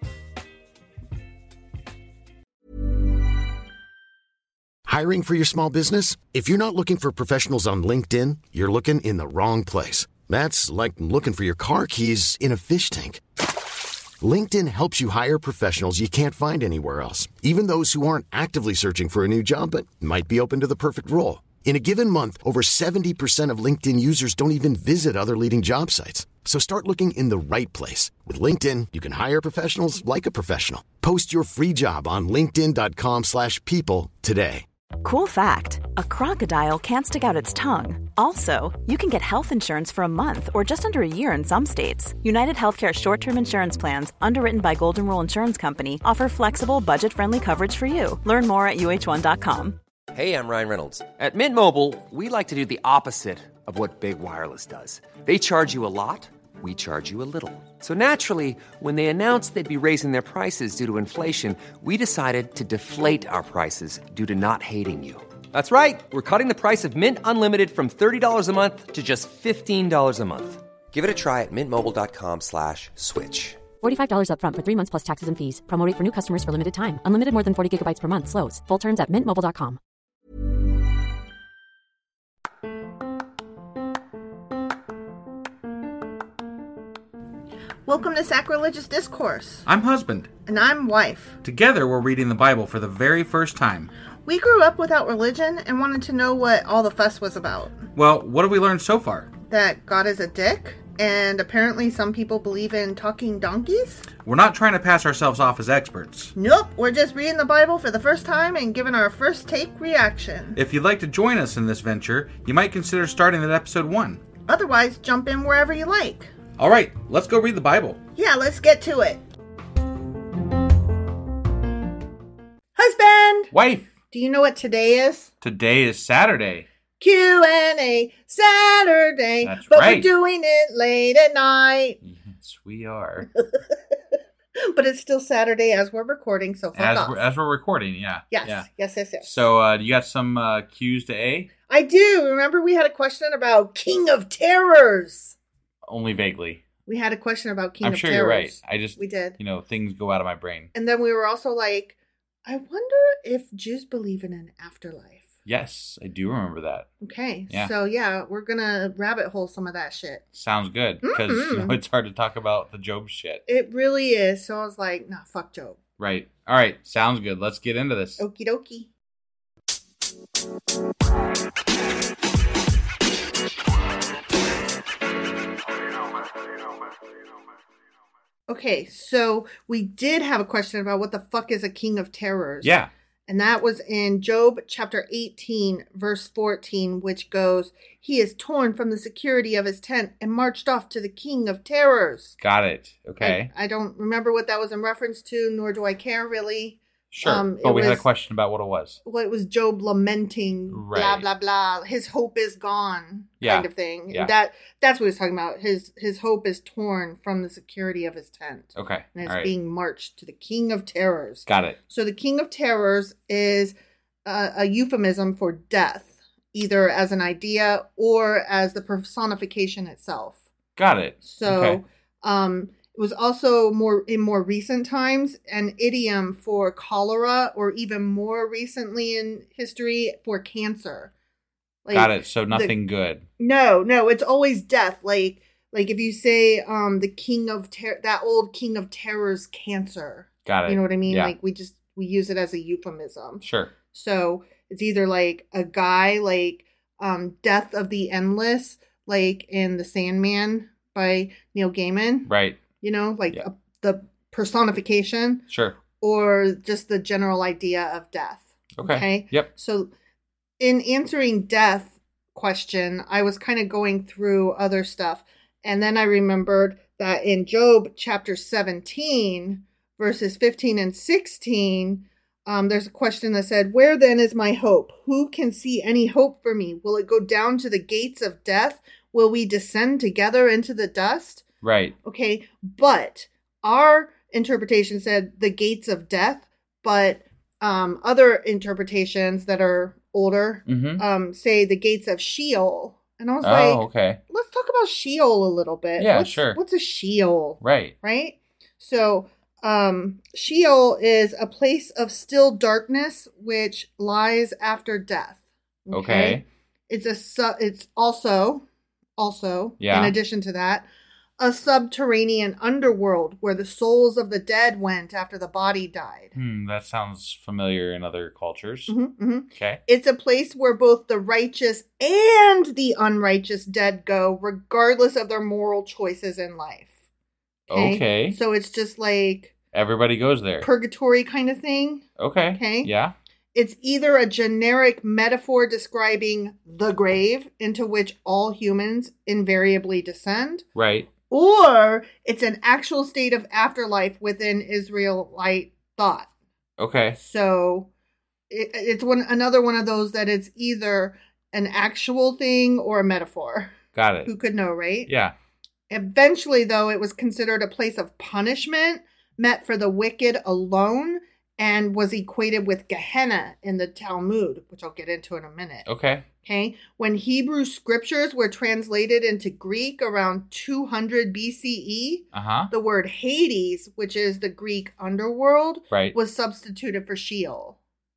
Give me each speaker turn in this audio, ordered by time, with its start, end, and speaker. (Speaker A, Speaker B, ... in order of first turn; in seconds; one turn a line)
Speaker A: 4.8-13.2
Speaker A: 14.2-34.6
Speaker B: 35.0-49.8
Speaker C: 50.1-73.6
Speaker D: 73.8-79.8
Speaker E: 87.9-89.7
Speaker F: 89.7-90.3
Speaker E: 90.5-91.3
Speaker F: 91.4-93.9
Speaker E: 94.2-97.9
Speaker F: 97.9-99.3
Speaker E: 99.5-104.1
Speaker F: 104.2-106.3
Speaker E: 106.3-110.6
Speaker F: 110.5-114.2
Speaker E: 114.5-116.3
Speaker F: 116.6-118.0
Speaker E: 118.2-119.2
Speaker E: 122.8-123.5
Speaker F: 123.5-123.9
Speaker E: 124.1-125.3
Speaker F: 125.4-126.7
Speaker E: 127.0-132.0
Speaker F: 129.4-130.1
Speaker F: 132.0-133.3
Speaker E: 134.6-137.2
Speaker F: 136.7-138.7
Speaker E: 138.3-139.3
Speaker F: 139.2-141.5
Speaker E: 141.7-145.3
Speaker F: 145.8-146.6
Speaker E: 146.9-149.4
Speaker F: 147.8-150.7
Speaker E: 150.7-155.2
Speaker F: 155.4-156.9
Speaker E: 157.0-160.2
Speaker F: 160.3-163.4
Speaker E: 161.0-161.8
Speaker E: 163.5-165.8
Speaker F: 166.0-168.2
Speaker E: 168.2-168.9
Speaker E: 178.5-182.7
Speaker F: 182.6-182.9
Speaker E: 183.3-192.3
Speaker F: 192.4-193.5
Speaker E: 193.2-198.0
Speaker F: 197.1-199.0
Speaker E: 199.0-213.7
Speaker F: 200.7-201.3
Speaker F: 203.4-204.3
Speaker F: 208.7-209.5
Speaker F: 211.5-211.8
Speaker E: 214.2-220.4
Speaker F: 220.8-221.8
Speaker E: 221.2-231.1
Speaker E: 231.8-232.7
Speaker F: 231.9-233.2
Speaker E: 233.4-255.4
Speaker F: 240.4-241.3
Speaker F: 243.4-243.7
Speaker F: 252.3-252.6
Speaker F: 255.5-255.8
Speaker E: 256.0-259.9
Speaker F: 258.8-259.5
Speaker E: 260.6-281.4
Speaker F: 281.6-281.9
Speaker E: 282.0-308.6
Speaker F: 290.6-291.0
Speaker F: 293.4-294.2
Speaker F: 296.0-296.6
Speaker F: 297.6-297.9
Speaker F: 305.9-306.4
Speaker E: 309.2-310.9
Speaker F: 309.8-310.1
Speaker E: 311.4-316.3
Speaker F: 316.3-318.9
Speaker E: 318.9-326.9
Speaker F: 319.5-319.8
Speaker F: 327.7-328.4
Speaker E: 327.7-329.5
Speaker F: 329.7-330.7
Speaker E: 330.6-332.0
Speaker F: 332.2-333.1
Speaker E: 332.6-332.9
Speaker E: 333.5-340.6
Speaker F: 340.7-341.1
Speaker E: 341.3-346.3
Speaker F: 346.8-347.2
Speaker E: 347.2-347.9
Speaker E: 348.5-353.7
Speaker F: 353.9-354.3
Speaker E: 354.2-355.1
Speaker F: 355.1-355.3
Speaker E: 355.9-365.9
Speaker F: 365.9-366.2
Speaker E: 366.4-377.8
Speaker F: 372.3-372.7
Speaker F: 375.9-376.1